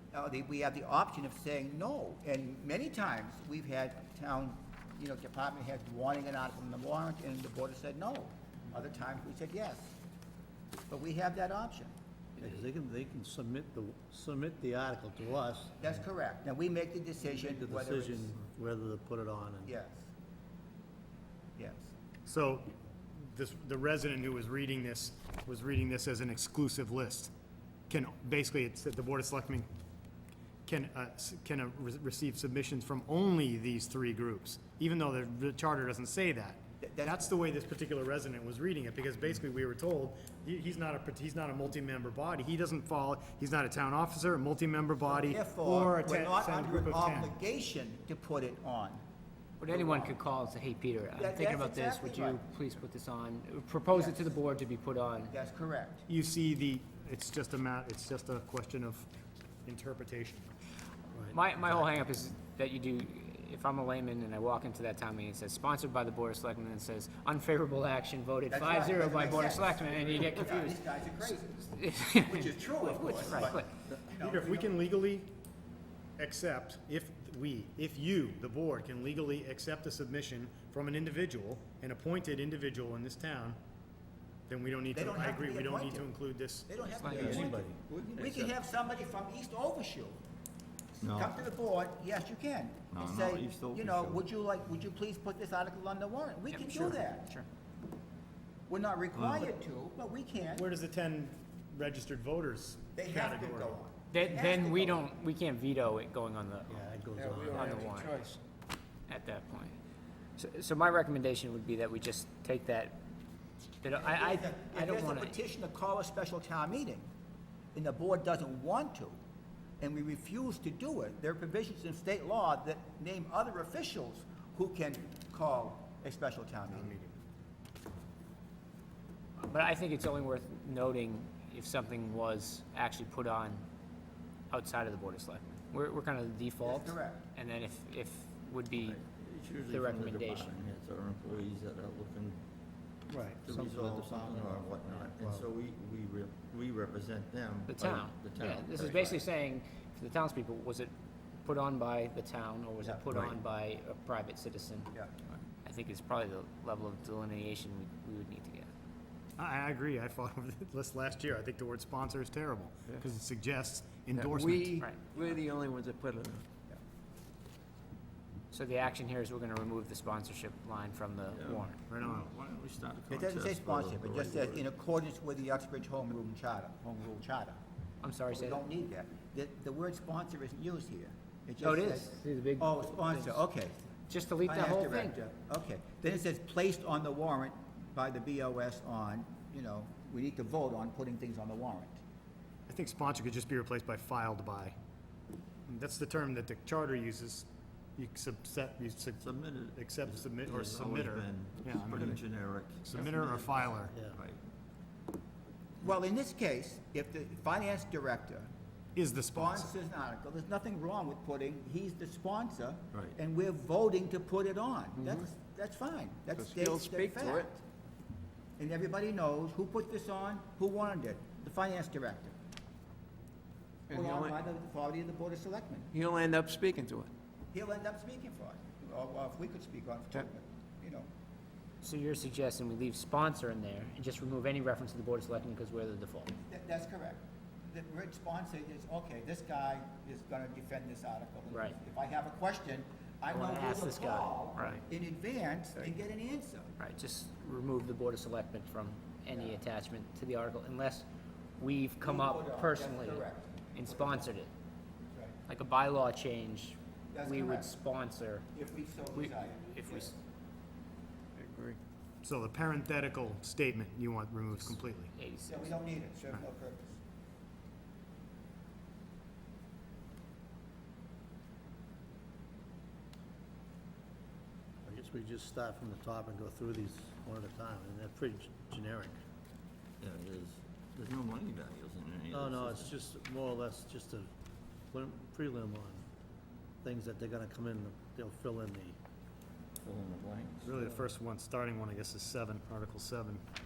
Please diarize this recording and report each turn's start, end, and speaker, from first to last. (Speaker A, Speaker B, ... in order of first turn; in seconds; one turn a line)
Speaker A: 0.1-10.0
Speaker A: 10.9-11.9
Speaker B: 12.4-15.9
Speaker A: 15.8-18.3
Speaker B: 17.3-19.7
Speaker A: 19.6-20.1
Speaker A: 21.6-21.9
Speaker C: 22.3-27.3
Speaker C: 27.9-29.7
Speaker C: 30.7-47.4
Speaker A: 36.8-37.3
Speaker A: 45.0-49.0
Speaker D: 49.6-55.3
Speaker A: 49.7-50.2
Speaker A: 51.1-52.4
Speaker A: 53.9-54.4
Speaker A: 55.3-56.1
Speaker C: 56.1-59.1
Speaker C: 59.7-60.5
Speaker B: 61.1-61.4
Speaker D: 61.3-70.9
Speaker A: 68.5-74.8
Speaker D: 71.7-73.7
Speaker C: 74.2-75.3
Speaker C: 76.2-83.6
Speaker C: 84.5-86.8
Speaker A: 84.9-86.1
Speaker A: 86.7-90.2
Speaker D: 86.9-87.5
Speaker E: 87.1-88.5
Speaker B: 87.2-87.8
Speaker E: 91.0-91.4
Speaker A: 91.0-97.3
Speaker E: 92.9-94.3
Speaker D: 96.5-97.5
Speaker A: 98.7-100.7
Speaker E: 99.1-99.5
Speaker C: 100.5-103.8
Speaker A: 103.0-105.1
Speaker D: 104.1-106.8
Speaker B: 106.7-107.9
Speaker F: 107.2-108.4
Speaker D: 107.5-108.2
Speaker D: 109.1-109.8
Speaker D: 110.4-113.0
Speaker D: 113.8-115.4
Speaker A: 113.9-117.1
Speaker A: 117.7-119.2
Speaker A: 119.8-127.0
Speaker C: 126.7-127.2
Speaker D: 129.4-133.6
Speaker D: 134.5-139.0
Speaker A: 136.6-137.3
Speaker E: 138.8-142.4
Speaker D: 139.7-140.6
Speaker B: 143.1-145.5
Speaker E: 143.4-149.2
Speaker D: 147.7-154.9
Speaker E: 153.1-153.4
Speaker A: 154.9-155.3
Speaker D: 155.7-158.7
Speaker C: 159.4-164.9
Speaker F: 164.2-166.4
Speaker D: 164.8-165.1
Speaker D: 168.5-171.8
Speaker E: 171.3-174.7
Speaker C: 171.9-172.3
Speaker A: 173.1-177.6
Speaker D: 178.0-178.6
Speaker A: 178.3-183.8
Speaker D: 181.6-183.4
Speaker D: 184.1-185.2
Speaker A: 184.4-192.0
Speaker C: 192.7-194.8
Speaker C: 195.7-202.2
Speaker E: 199.2-204.4
Speaker C: 202.8-204.0
Speaker B: 203.9-204.2
Speaker A: 205.8-208.5
Speaker C: 209.0-209.7
Speaker A: 209.3-217.6
Speaker F: 216.3-217.6
Speaker A: 218.6-222.4
Speaker F: 223.9-224.4
Speaker A: 223.9-225.9
Speaker F: 225.9-227.1
Speaker A: 227.5-231.1
Speaker D: 231.8-236.3
Speaker A: 236.4-246.7
Speaker D: 241.5-241.8
Speaker D: 243.3-244.8
Speaker D: 246.8-251.1
Speaker A: 249.3-249.6
Speaker D: 251.6-254.5
Speaker A: 252.0-254.3
Speaker D: 255.5-258.5
Speaker A: 257.1-257.7
Speaker A: 258.5-260.1
Speaker D: 259.1-260.1
Speaker F: 261.4-261.8
Speaker C: 262.2-265.1
Speaker D: 265.1-265.8
Speaker A: 265.5-267.0
Speaker B: 274.9-279.2
Speaker E: 280.0-283.0
Speaker B: 282.3-284.3
Speaker B: 284.9-286.1
Speaker B: 286.8-289.0
Speaker E: 289.8-290.7
Speaker C: 290.6-293.4